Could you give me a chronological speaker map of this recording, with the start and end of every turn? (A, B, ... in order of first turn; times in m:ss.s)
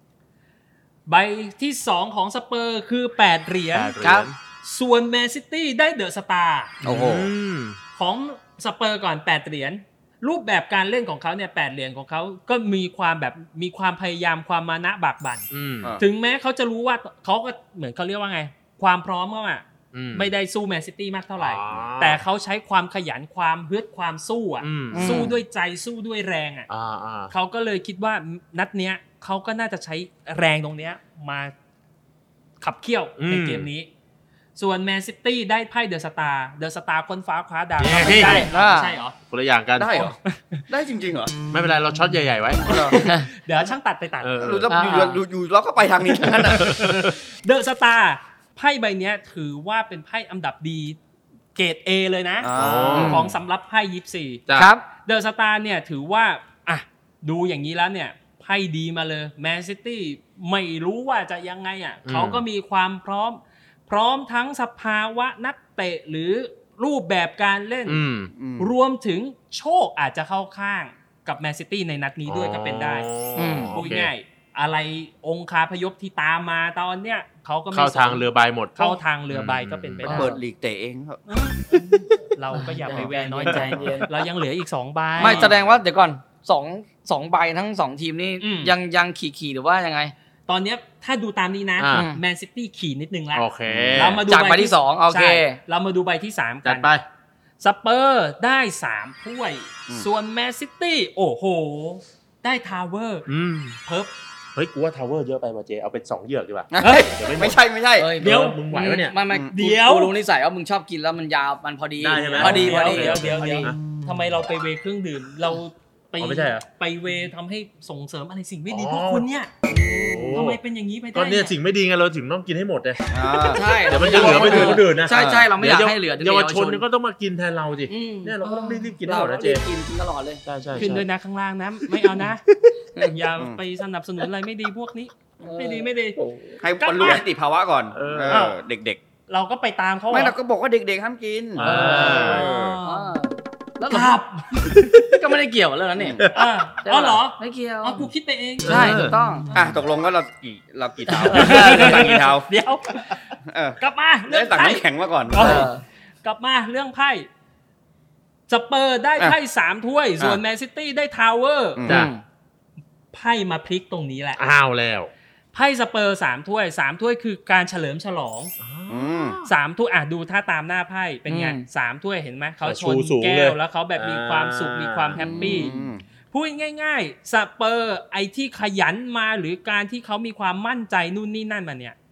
0:01.1-0:03.9 A
0:03.7-0:04.4 B
0:04.0-0:04.3 C
0:04.6-0:06.7 A
0:06.8-0:07.3 D
0:06.8-0:07.8 B
0:08.0-0:26.7 A
0:15.5-0:15.9 B
0:19.9-0:20.3 B
0:21.4-0:22.2 B
0:24.6-0:25.3 B
0:24.9-0:25.4 C
0:26.7-0:27.3 B
0:27.3-0:31.5 A
0:32.6-0:33.9 A
0:33.2-0:33.7 B
0:34.6-0:39.1 A
0:37.8-0:38.5 B
0:38.1-0:39.0 C
0:39.3-0:40.1 B
0:39.8-0:40.2 D
0:39.9-0:40.6 A
0:40.7-0:41.3 D
0:41.5-0:42.8 B
0:42.6-0:43.0 D
0:42.6-0:44.4 A
0:42.9-0:43.3 C
0:44.2-0:44.7 B
0:44.4-0:46.8 D
0:44.7-0:45.2 C
0:46.2-0:47.1 B
0:46.5-0:51.0 A
0:51.5-0:54.4 A
0:52.4-0:53.2 D
0:52.5-0:53.3 B
0:53.0-0:53.2 C
0:54.5-0:54.7 B
0:54.6-0:54.8 C
0:55.0-1:08.0 A
1:02.0-1:02.4 B
1:07.8-1:08.3 B
1:08.3-1:08.7 D
1:08.6-1:13.1 A
1:12.2-1:14.1 B
1:13.4-1:13.8 C
1:13.7-1:20.4 A
1:17.7-1:20.2 B
1:20.0-1:20.3 C
1:20.1-1:21.2 D
1:21.3-1:25.5 A
1:22.5-1:24.1 C
1:23.0-1:24.1 B
1:25.2-1:30.1 C
1:25.2-1:25.7 B
1:28.4-1:28.7 A
1:30.5-1:36.9 A
1:31.8-1:32.1 B
1:31.9-1:32.2 C
1:33.3-1:34.2 B
1:33.7-1:34.2 D
1:34.3-1:35.6 C
1:36.6-1:37.0 B
1:37.6-1:43.2 A
1:43.2-1:43.8 B
1:43.8-1:44.1 A
1:44.5-1:47.6 B
1:46.7-1:48.1 D
1:46.8-1:47.1 A
1:48.0-1:53.7 C
1:48.2-1:49.2 B
1:49.5-1:50.1 A
1:52.0-1:53.8 B
1:52.3-1:59.5 A
1:56.2-1:56.6 B
1:58.7-2:00.6 B
1:59.7-2:00.4 C
2:00.3-2:01.5 A
2:01.1-2:09.6 B
2:03.1-2:05.5 D
2:03.5-2:06.8 C
2:04.5-2:04.8 A
2:07.9-2:10.4 C
2:08.4-2:08.9 A
2:10.4-2:11.0 B
2:10.7-2:12.4 A
2:13.0-2:16.2 A
2:15.4-2:15.9 C
2:16.2-2:16.6 B
2:16.6-2:19.0 D
2:16.8-2:17.2 A
2:17.9-2:18.5 B
2:18.3-2:18.6 A
2:19.3-2:20.4 A
2:20.1-2:22.8 D
2:21.6-2:22.4 B
2:21.6-2:26.3 C
2:21.8-2:23.2 A
2:23.9-2:25.1 A
2:26.0-2:26.2 D
2:26.2-2:26.5 B
2:26.3-2:29.8 A
2:26.8-2:28.1 C
2:28.6-2:29.2 B
2:28.6-2:29.5 C
2:29.5-2:32.5 D
2:31.2-2:31.7 C
2:31.3-2:35.7 A
2:31.4-2:31.9 B
2:33.5-2:35.7 D
2:35.4-2:35.8 C
2:36.2-2:37.3 A
2:38.5-2:41.8 A
2:41.8-2:42.1 D
2:41.9-2:42.2 C
2:43.1-2:44.4 A
2:44.4-2:45.1 B
2:45.5-2:48.5 A
2:48.6-2:49.5 B
2:48.9-2:49.4 D
2:49.4-2:55.7 A
2:51.3-2:51.6 C
2:52.6-2:55.8 B
2:55.2-2:56.0 D
2:55.3-2:55.8 C
2:56.3-3:02.0 A